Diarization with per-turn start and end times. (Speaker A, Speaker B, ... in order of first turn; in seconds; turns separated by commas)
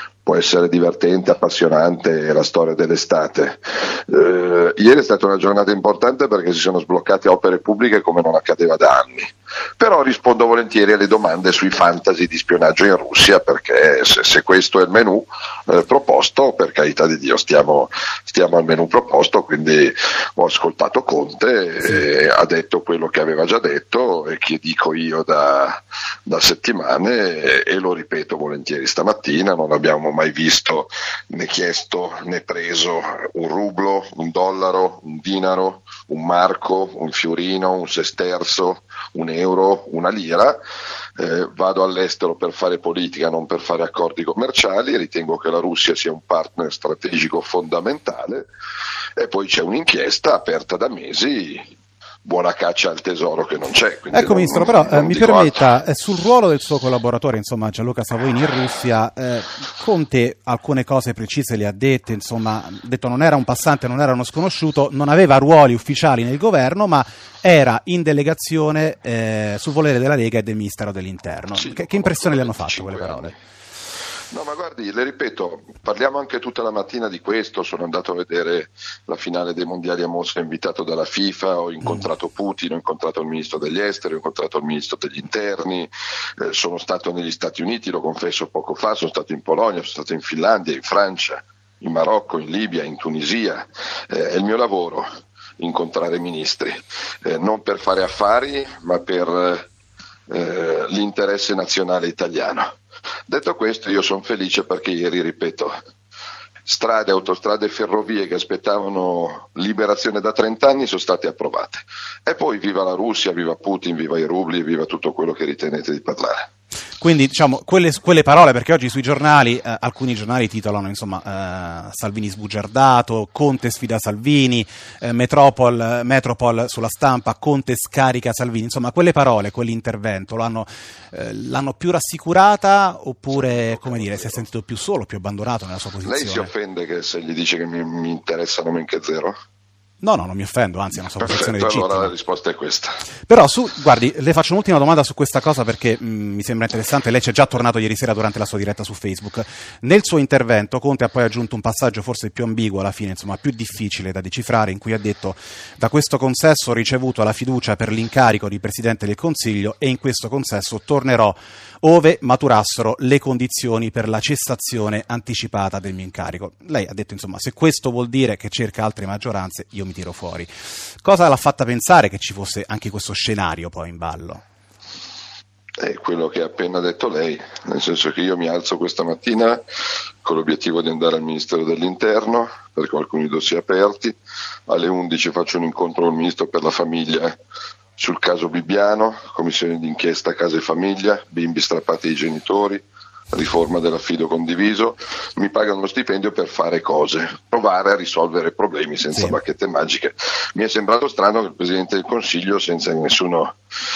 Speaker A: 0.2-40.6, Speaker A: 41.2-48.5, Speaker A: 49.2-51.7, Speaker A: 52.2-55.6, Speaker B: 54.1-73.3, Speaker A: 71.5-73.3, Speaker A: 74.3-95.0, Speaker A: 95.6-99.7, Speaker A: 100.3-102.7, Speaker A: 103.3-105.7, Speaker A: 106.7-116.5, Speaker B: 117.0-136.5, Speaker A: 133.3-134.4, Speaker A: 136.0-139.3, Speaker B: 140.0-142.1, Speaker A: 141.2-143.0, Speaker B: 143.3-174.4, Speaker A: 175.8-179.6, Speaker A: 180.2-184.2, Speaker A: 184.7-187.4, Speaker A: 188.0-203.6, Speaker B: 199.1-199.4